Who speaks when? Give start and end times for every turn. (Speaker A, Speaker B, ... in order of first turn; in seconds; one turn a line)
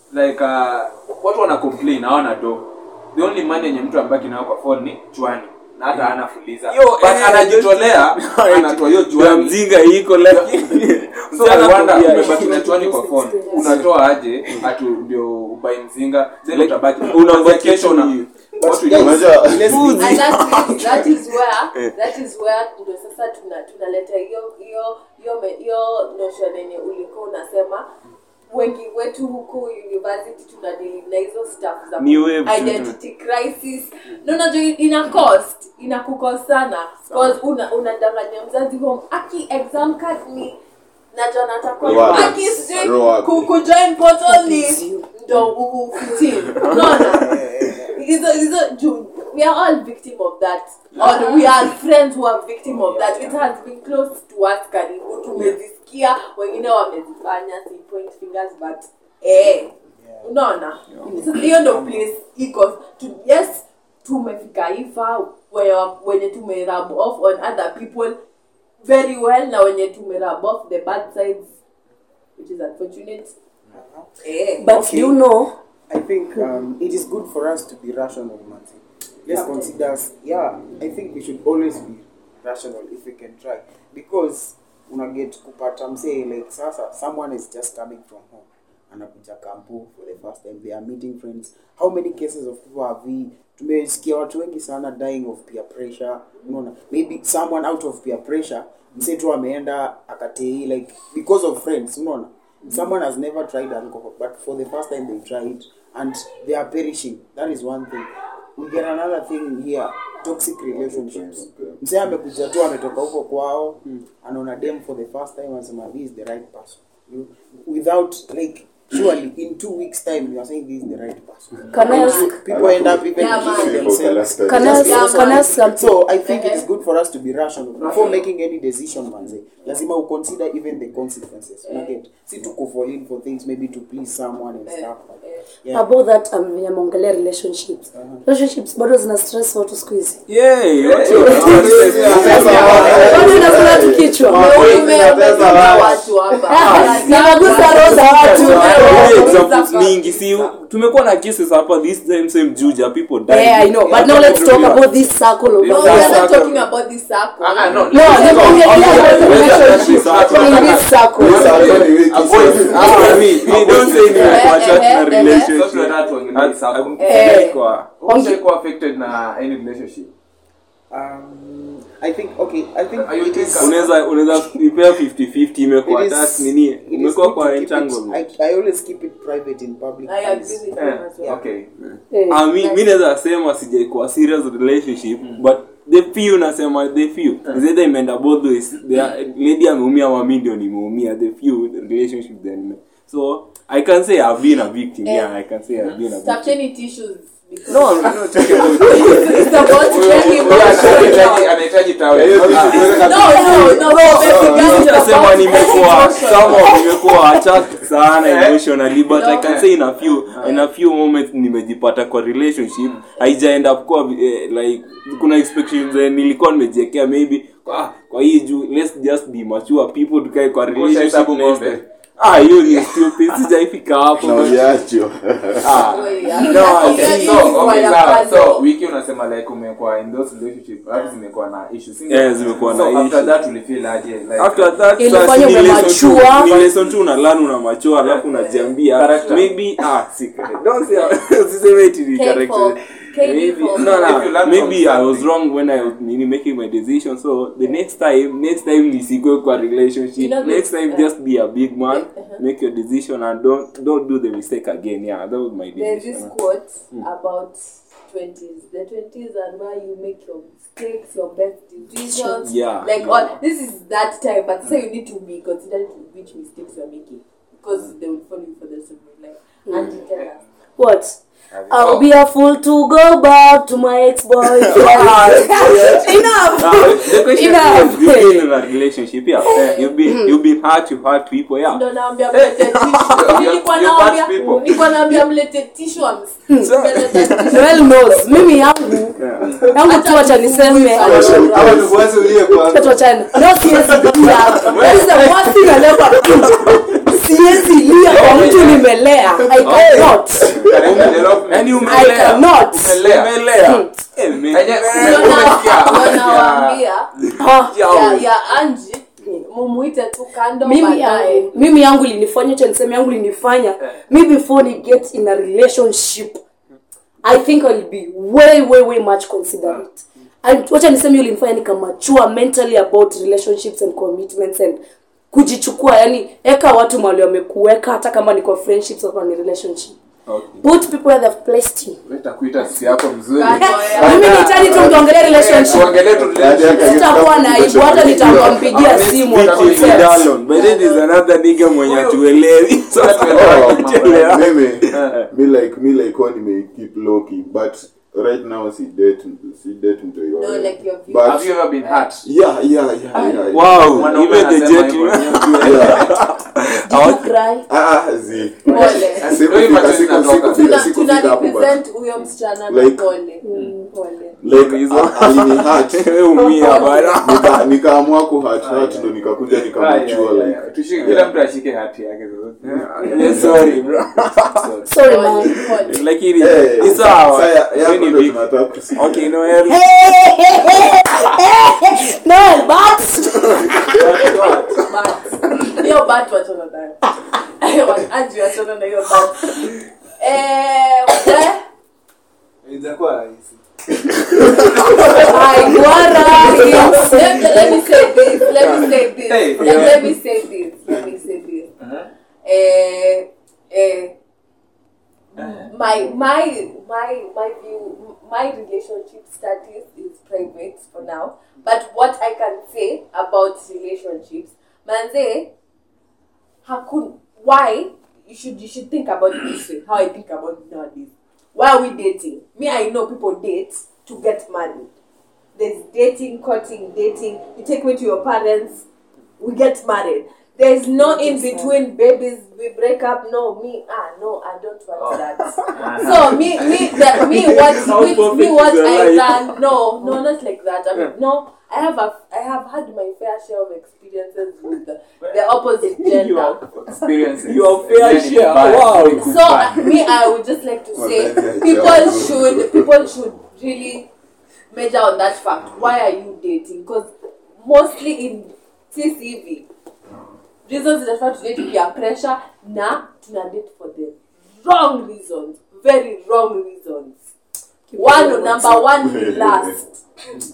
Speaker A: 0.1-9.6
Speaker B: 6.7-13.0
Speaker A: 10.2-10.8
Speaker A: 11.3-19.2
Speaker C: 12.0-13.6
Speaker D: 13.4-13.8
Speaker B: 16.5-18.3
Speaker E: 18.6-20.7
Speaker F: 18.9-19.9
Speaker B: 19.5-21.1
Speaker D: 19.9-27.9
Speaker D: 28.5-40.6
Speaker B: 32.0-33.0
Speaker D: 41.1-68.2
Speaker F: 41.8-43.5
Speaker E: 41.9-42.3
Speaker C: 44.2-45.1
Speaker B: 46.5-47.0
Speaker E: 46.8-48.0
Speaker B: 51.0-51.4
Speaker E: 60.0-60.3
Speaker E: 61.5-62.0
Speaker D: 68.8-71.5
Speaker D: 72.4-73.3
Speaker E: 73.7-74.1
Speaker D: 74.2-74.7
Speaker C: 74.6-75.5
Speaker E: 74.7-75.2
Speaker E: 75.9-135.8
Speaker D: 79.3-79.7
Speaker C: 121.7-122.4
Speaker F: 121.8-125.4
Speaker D: 121.9-122.3
Speaker D: 123.1-126.7
Speaker C: 124.5-125.9
Speaker D: 127.9-128.2
Speaker D: 131.7-132.0
Speaker D: 134.7-135.4
Speaker C: 135.7-140.2
Speaker E: 137.9-138.2
Speaker B: 140.3-143.1
Speaker A: 140.8-141.2
Speaker D: 141.1-150.6
Speaker F: 141.1-146.1
Speaker G: 141.3-143.8
Speaker A: 142.1-143.2
Speaker C: 142.2-144.7
Speaker G: 144.3-146.4
Speaker C: 146.5-149.4
Speaker B: 146.5-154.9
Speaker F: 148.4-148.9
Speaker C: 153.3-156.1
Speaker E: 153.8-154.8
Speaker A: 155.6-156.6
Speaker D: 155.7-159.4
Speaker B: 155.7-156.6
Speaker A: 157.4-167.1
Speaker C: 157.9-161.8
Speaker B: 158.0-160.9
Speaker F: 159.8-163.3
Speaker B: 162.3-167.9
Speaker D: 164.0-165.6
Speaker D: 167.0-167.6
Speaker C: 167.1-167.5
Speaker A: 168.0-170.1
Speaker C: 168.0-168.4
Speaker E: 170.9-174.6
Speaker A: 172.9-173.9
Speaker B: 173.6-178.3
Speaker E: 175.8-180.6
Speaker D: 180.1-181.4
Speaker A: 180.8-181.7
Speaker B: 181.8-196.5
Speaker C: 182.1-182.4
Speaker D: 182.5-182.8
Speaker D: 195.0-195.3
Speaker D: 196.1-201.6
Speaker B: 197.7-201.1
Speaker A: 199.7-203.7
Speaker F: 202.1-204.8
Speaker G: 202.2-203.8
Speaker B: 202.3-224.6
Speaker D: 202.9-207.1
Speaker C: 203.5-204.4
Speaker A: 206.2-206.6
Speaker A: 208.2-208.6
Speaker D: 209.1-209.7
Speaker A: 209.1-210.5
Speaker A: 220.7-221.8
Speaker F: 224.2-225.9
Speaker B: 225.6-227.9
Speaker A: 225.7-234.8
Speaker D: 225.8-228.7
Speaker B: 232.1-233.3
Speaker B: 234.4-256.3
Speaker C: 235.0-236.7
Speaker D: 238.3-238.7
Speaker A: 238.8-239.6
Speaker D: 242.1-244.3
Speaker A: 243.7-245.3
Speaker D: 250.2-251.1
Speaker D: 251.9-252.4
Speaker D: 255.7-270.4
Speaker C: 262.0-262.4
Speaker B: 262.4-263.4
Speaker C: 269.7-269.9
Speaker A: 269.7-270.3
Speaker C: 270.8-271.2
Speaker A: 271.5-272.1
Speaker C: 271.7-278.4
Speaker B: 274.6-281.8
Speaker D: 275.3-277.6
Speaker D: 279.4-279.9
Speaker C: 279.5-280.4
Speaker D: 281.6-287.9
Speaker B: 282.3-283.2
Speaker A: 283.1-285.2
Speaker C: 284.4-284.6
Speaker C: 286.5-289.2
Speaker B: 286.6-287.8
Speaker B: 289.1-289.6
Speaker C: 289.7-291.5
Speaker D: 289.8-292.1
Speaker F: 291.0-292.4
Speaker G: 291.0-293.1
Speaker C: 292.6-300.6
Speaker D: 294.2-296.2
Speaker A: 294.6-295.4
Speaker B: 296.3-296.9
Speaker B: 298.0-298.9
Speaker A: 298.0-298.9
Speaker B: 299.6-306.2
Speaker F: 300.6-301.0
Speaker A: 300.6-303.3
Speaker C: 301.8-303.0
Speaker C: 303.6-303.9
Speaker A: 304.5-306.9
Speaker D: 304.8-307.1
Speaker B: 307.2-308.2
Speaker C: 307.4-307.8
Speaker A: 307.7-308.2
Speaker D: 307.8-311.5
Speaker C: 310.6-316.4
Speaker C: 317.2-329.9
Speaker B: 330.2-330.6
Speaker C: 330.6-332.0
Speaker A: 332.1-337.4
Speaker D: 333.3-335.7
Speaker C: 333.6-336.1
Speaker F: 336.2-338.8
Speaker C: 336.7-340.1
Speaker B: 337.7-345.3
Speaker A: 338.0-340.3
Speaker D: 339.5-341.1
Speaker A: 341.8-342.2
Speaker A: 342.9-345.2
Speaker F: 343.3-351.5
Speaker D: 350.3-352.0
Speaker A: 351.2-352.2
Speaker F: 352.2-354.1
Speaker B: 353.5-357.3
Speaker A: 353.9-356.0
Speaker F: 355.6-356.1
Speaker C: 356.9-357.7
Speaker F: 357.7-361.8
Speaker D: 358.7-359.4
Speaker A: 358.7-360.9
Speaker D: 360.4-364.4
Speaker F: 362.7-363.1
Speaker C: 363.4-363.9
Speaker F: 364.4-366.1
Speaker B: 364.4-367.6
Speaker D: 366.6-367.1
Speaker C: 366.6-367.2
Speaker F: 367.2-371.3
Speaker A: 368.6-373.8
Speaker B: 372.6-374.7
Speaker F: 373.2-373.6
Speaker A: 374.5-374.9
Speaker C: 374.9-375.6
Speaker D: 374.9-376.1
Speaker B: 375.5-378.4
Speaker F: 376.4-379.3
Speaker B: 378.9-379.9
Speaker C: 379.7-384.1
Speaker B: 383.7-384.9
Speaker D: 384.2-391.6
Speaker G: 392.6-393.6
Speaker B: 394.3-394.9
Speaker D: 394.6-401.7
Speaker C: 395.0-397.8
Speaker A: 398.8-400.1
Speaker B: 399.6-399.9
Speaker A: 401.8-402.1
Speaker D: 402.4-404.1
Speaker D: 405.4-415.5
Speaker A: 405.4-405.7
Speaker D: 416.6-424.9
Speaker D: 425.5-428.8
Speaker D: 429.4-446.7
Speaker C: 431.0-431.7
Speaker A: 434.9-437.2
Speaker B: 435.5-435.9
Speaker B: 436.9-439.6
Speaker B: 446.0-446.3
Speaker A: 446.3-449.6
Speaker B: 447.4-449.8
Speaker D: 449.2-454.1
Speaker F: 449.2-450.1
Speaker F: 450.9-452.9
Speaker D: 454.7-459.6
Speaker D: 460.6-467.2
Speaker C: 467.9-468.8
Speaker D: 467.9-470.0
Speaker F: 469.0-469.7